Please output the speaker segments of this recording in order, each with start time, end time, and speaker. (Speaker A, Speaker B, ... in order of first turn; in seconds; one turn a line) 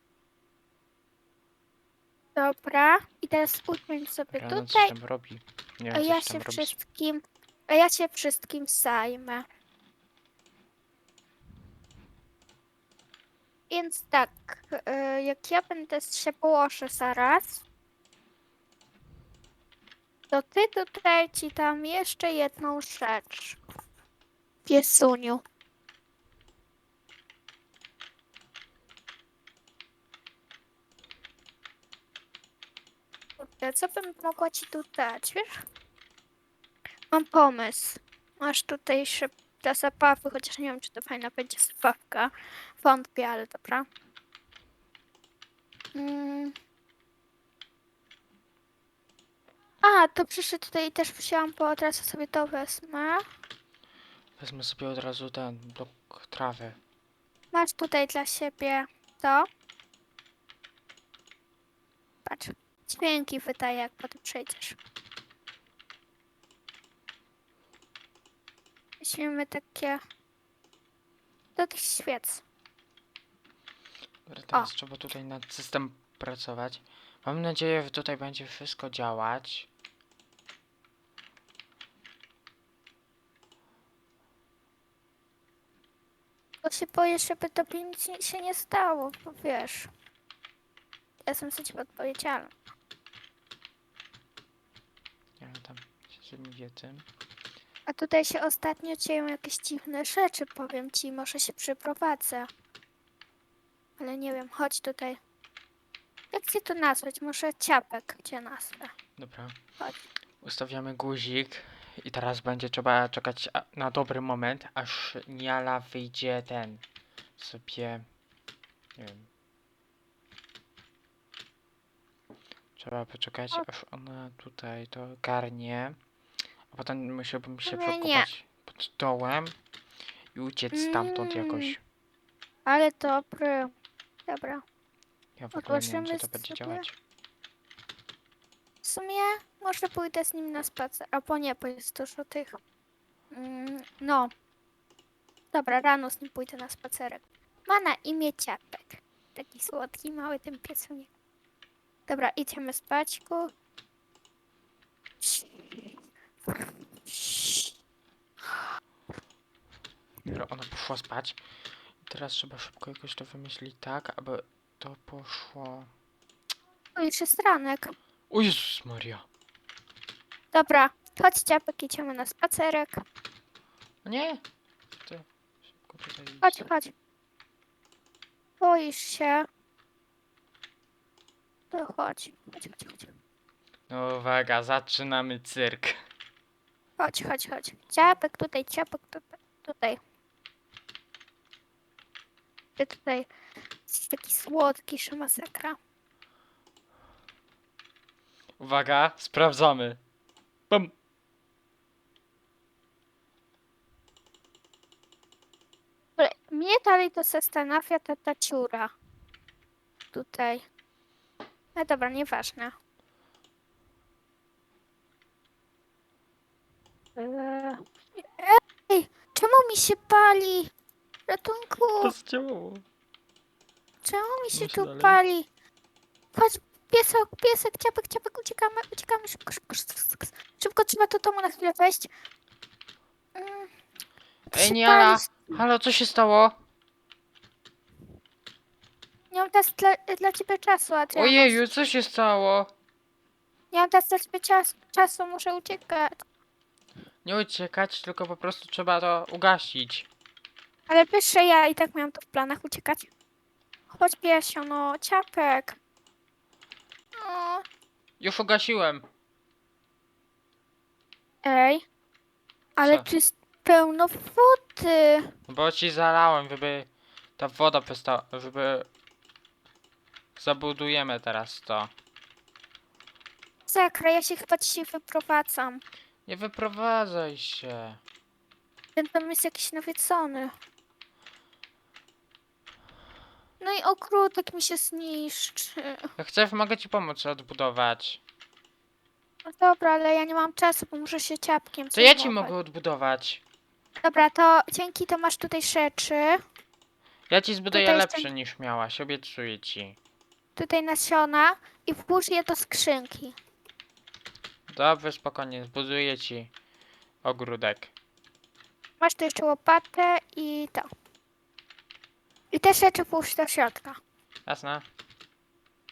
Speaker A: 2.3-4.9
Speaker B: 4.3-6.8
Speaker A: 5.9-9.4
Speaker A: 13.7-17.6
Speaker A: 20.3-23.6
Speaker A: 24.6-25.4
Speaker A: 33.4-35.6
Speaker A: 37.1-43.9
Speaker A: 45.9-46.5
Speaker A: 49.8-53.2
Speaker B: 54.4-56.8
Speaker A: 57.5-59.5
Speaker A: 62.2-64.8
Speaker A: 69.0-70.0
Speaker A: 71.5-72.4
Speaker B: 74.3-79.7
Speaker A: 86.6-89.9
Speaker A: 91.2-92.5
Speaker B: 95.4-97.0
Speaker A: 97.9-102.5
Speaker A: 104.0-105.2
Speaker A: 106.3-108.9
Speaker B: 109.2-109.6
Speaker B: 110.4-116.8
Speaker B: 117.4-118.0
Speaker B: 119.0-119.3
Speaker B: 122.8-126.0
Speaker B: 126.7-129.6
Speaker A: 127.7-128.3
Speaker B: 130.3-131.8
Speaker A: 130.7-131.8
Speaker A: 132.7-133.7
Speaker A: 134.3-134.6
Speaker B: 135.4-136.9
Speaker A: 135.5-136.8
Speaker A: 138.8-142.6
Speaker A: 143.3-144.3
Speaker A: 145.5-151.1
Speaker A: 152.1-153.5
Speaker A: 155.2-157.7
Speaker B: 160.2-161.4
Speaker B: 162.0-165.9
Speaker A: 166.9-167.9
Speaker B: 168.3-169.2
Speaker A: 170.5-173.0
Speaker B: 174.0-174.4
Speaker B: 174.9-175.2
Speaker B: 175.8-176.6
Speaker A: 176.4-176.9
Speaker A: 178.6-179.5
Speaker A: 181.7-183.1
Speaker B: 183.9-186.0
Speaker A: 187.0-190.0
Speaker A: 192.8-193.3
Speaker A: 193.9-195.8
Speaker B: 198.6-200.0
Speaker A: 206.2-208.9
Speaker A: 210.1-210.6
Speaker A: 211.7-212.7
Speaker A: 217.2-220.7
Speaker A: 221.3-222.1
Speaker B: 222.0-222.8
Speaker A: 224.0-225.5
Speaker B: 224.5-225.2
Speaker A: 226.3-232.1
Speaker A: 233.3-233.7
Speaker A: 234.5-235.6
Speaker B: 234.5-236.5
Speaker A: 239.3-241.6
Speaker B: 241.1-242.7
Speaker A: 243.7-246.2
Speaker B: 247.2-250.1
Speaker A: 250.9-253.1
Speaker A: 253.9-255.8
Speaker A: 257.1-257.6
Speaker B: 258.2-259.0
Speaker A: 261.4-261.8
Speaker A: 262.8-265.3
Speaker B: 265.5-268.9
Speaker B: 270.4-271.9
Speaker A: 273.7-275.8
Speaker B: 276.2-278.0
Speaker A: 278.9-280.5
Speaker A: 283.6-286.1
Speaker B: 286.2-288.2
Speaker A: 289.4-292.5
Speaker B: 291.9-293.4
Speaker A: 294.0-296.4
Speaker B: 297.3-300.0
Speaker A: 297.7-298.3
Speaker A: 300.6-303.4
Speaker B: 304.7-306.5
Speaker B: 307.2-307.9
Speaker A: 309.0-310.9
Speaker A: 312.5-314.0
Speaker B: 314.5-314.8